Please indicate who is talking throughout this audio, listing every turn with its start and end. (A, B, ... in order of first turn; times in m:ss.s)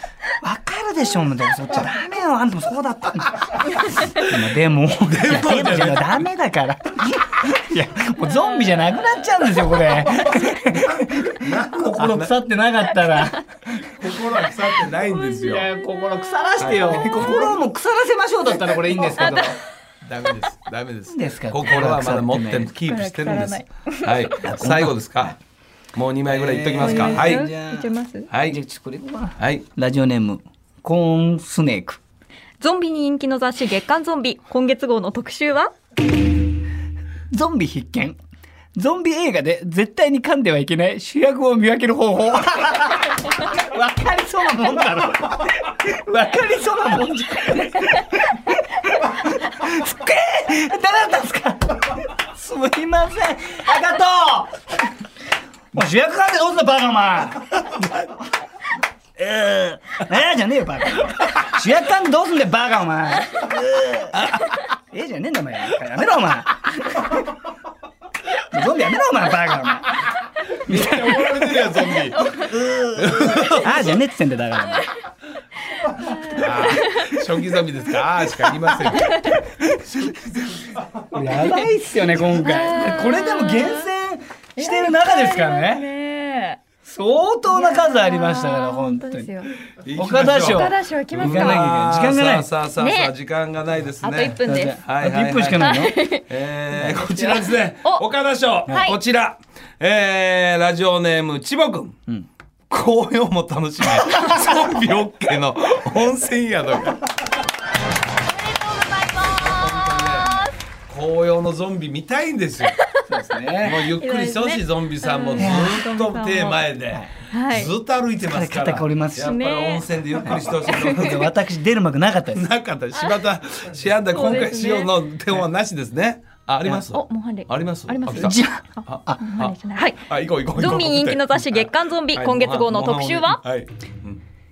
0:00.4-0:13.6 A
0:05.0-0:06.3 B
0:10.4-0:12.4 B
0:14.0-0:15.7 B
0:15.4-0:19.6 A
0:16.6-0:17.6 B
0:19.2-0:19.6 C
0:20.0-0:25.4 B
0:21.1-0:22.7 A
0:22.9-0:24.4 C
0:24.4-0:25.3 A
0:25.9-0:27.5 B
0:26.3-0:32.0 A
0:26.8-0:28.3 C
0:28.3-0:28.6 B
0:29.4-0:29.6 B
0:32.6-0:35.7 C
0:37.3-0:38.2 A
0:38.8-0:54.6 A
0:55.7-0:57.8 A
0:59.2-1:07.3 A
1:04.1-1:04.4 B
1:08.5-1:10.0 A
1:10.7-1:13.8 B
1:10.7-1:14.9 A
1:15.9-1:17.2 C
1:16.2-1:19.3 B
1:19.8-1:21.0 B
1:21.1-1:25.9 A
1:22.4-1:23.9 C
1:24.6-1:26.6 C
1:26.8-1:29.3 A
1:27.5-1:29.6 C
1:29.8-1:42.0 B
1:30.0-1:32.5 A
1:30.3-1:31.7 C
1:32.8-1:33.1 C
1:34.0-1:34.8 C
1:34.4-1:36.0 A
1:35.6-1:36.3 C
1:36.7-1:37.5 A
1:38.7-1:39.0 C
1:42.7-1:47.1 B
1:48.3-1:50.5 C
1:49.2-1:52.8 B
1:53.1-1:53.9 A
1:53.6-2:01.3 B
1:53.9-1:56.8 C
1:55.4-1:55.8 A
1:57.3-1:57.7 C
1:58.2-1:59.4 A
1:59.2-2:01.3 C
2:00.2-2:02.4 A
2:02.3-2:14.2 B
2:04.1-2:05.0 C
2:06.9-2:10.0 C
2:08.2-2:09.2 A
2:10.5-2:13.4 C